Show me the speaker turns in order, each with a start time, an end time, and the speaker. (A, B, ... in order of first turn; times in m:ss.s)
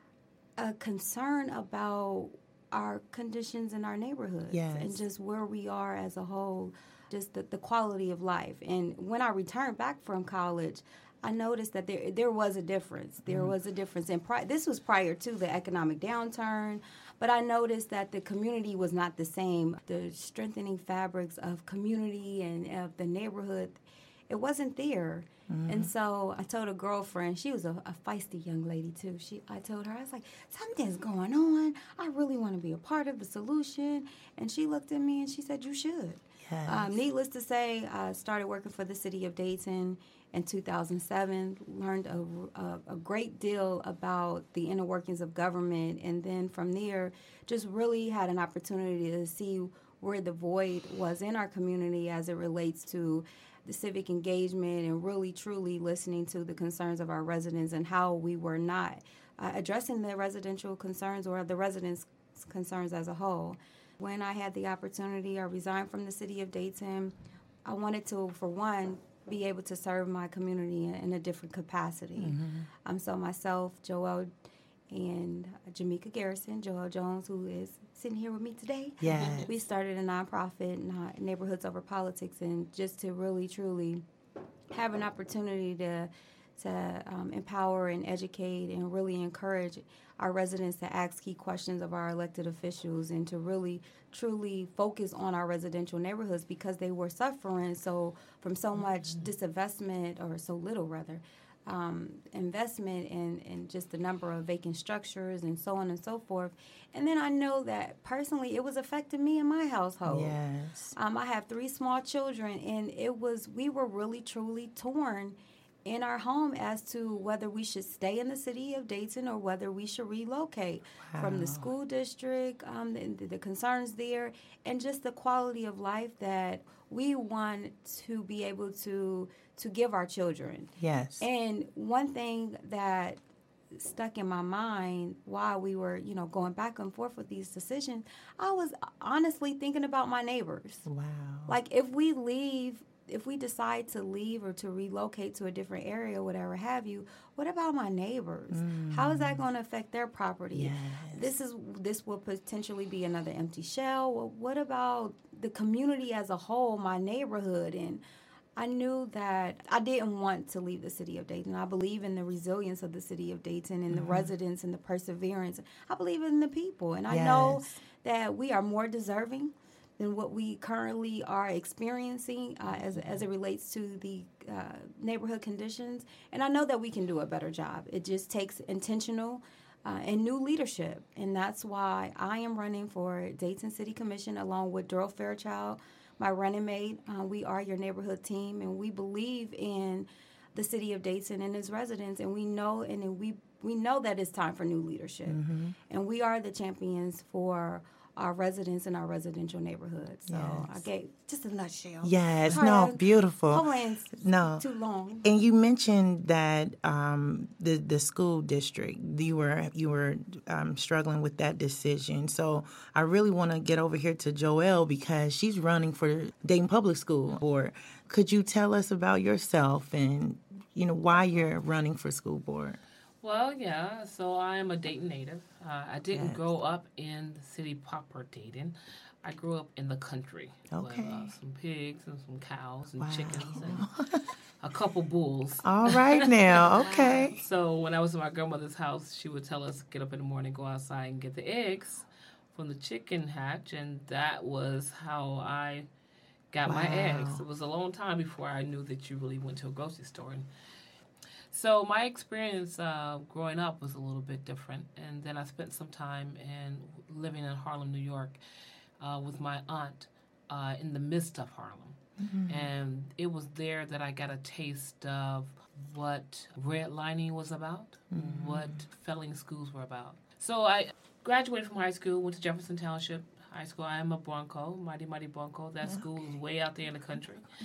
0:00.6-1:14.3 A
0:04.5-0:05.0 B
0:13.3-0:13.5 B
0:25.5-0:25.9 B
0:36.4-0:36.9 B
1:12.2-1:12.7 B
1:14.9-1:24.0 A
1:19.0-1:19.5 B
1:19.1-1:19.5 C
1:24.7-1:50.4 A
1:38.8-1:39.3 C
1:50.1-1:51.0 B
1:51.0-2:20.9 A
2:01.0-2:01.7 B
2:10.8-2:11.3 B
2:20.9-2:21.5 B
2:21.5-2:38.0 A
2:28.5-2:29.4 B
2:30.6-2:31.3 B
2:38.6-3:25.4 A
2:43.9-2:44.3 B
2:47.1-2:47.8 B
3:15.3-3:15.8 B
3:20.3-3:20.8 B
3:22.0-3:23.6 B
3:24.2-3:24.6 B
3:25.2-3:42.8 B
3:43.2-3:53.9 C
3:46.1-3:46.4 B
3:50.7-3:51.3 B
3:53.0-3:54.3 B
3:54.6-3:56.8 C
3:55.6-3:57.4 B
3:56.8-3:57.4 A
3:57.4-4:05.9 C
4:06.5-4:10.5 C
4:06.6-4:07.4 B
4:11.5-4:18.4 C
4:19.0-4:37.5 C
4:22.2-4:22.7 B
4:28.1-4:28.8 B